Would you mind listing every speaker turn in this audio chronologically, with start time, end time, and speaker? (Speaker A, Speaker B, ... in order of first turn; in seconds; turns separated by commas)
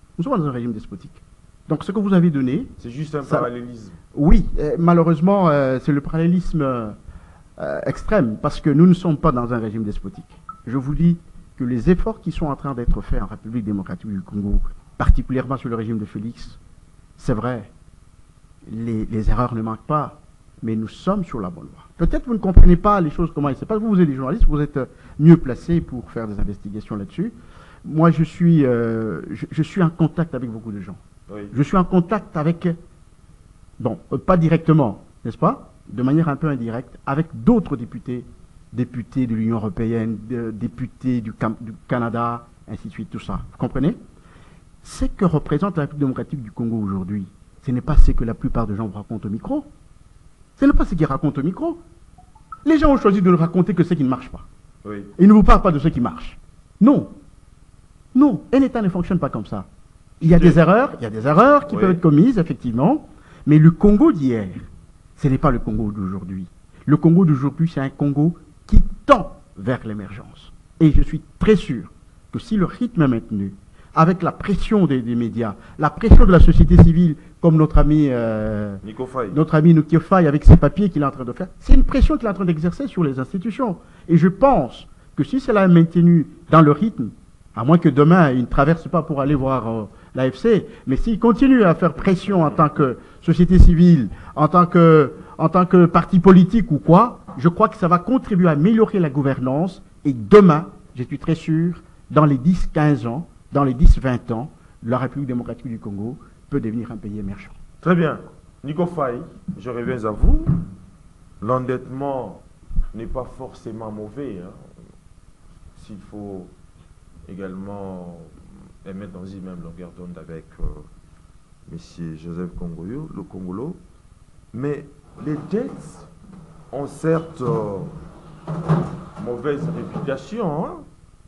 Speaker A: 0.2-2.7, Speaker B: 2.8-4.0, Speaker A: 4.1-7.0, Speaker A: 7.6-16.6, Speaker A: 17.2-17.7, Speaker A: 18.6-31.0, Speaker B: 31.3-31.6, Speaker A: 31.5-32.8, Speaker A: 33.8-44.0, Speaker A: 44.8-49.7, Speaker A: 50.6-51.8, Speaker A: 52.6-54.5, Speaker B: 54.8-55.1, Speaker A: 55.2-57.1, Speaker A: 58.1-59.7, Speaker A: 60.2-107.5, Speaker B: 60.2-60.6, Speaker B: 61.7-62.0, Speaker B: 78.8-79.4, Speaker B: 107.8-110.5, Speaker B: 111.4-114.7, Speaker B: 115.7-116.5, Speaker B: 117.3-120.9, Speaker B: 121.7-123.8, Speaker B: 124.5-126.1, Speaker B: 126.7-127.9, Speaker B: 129.2-130.8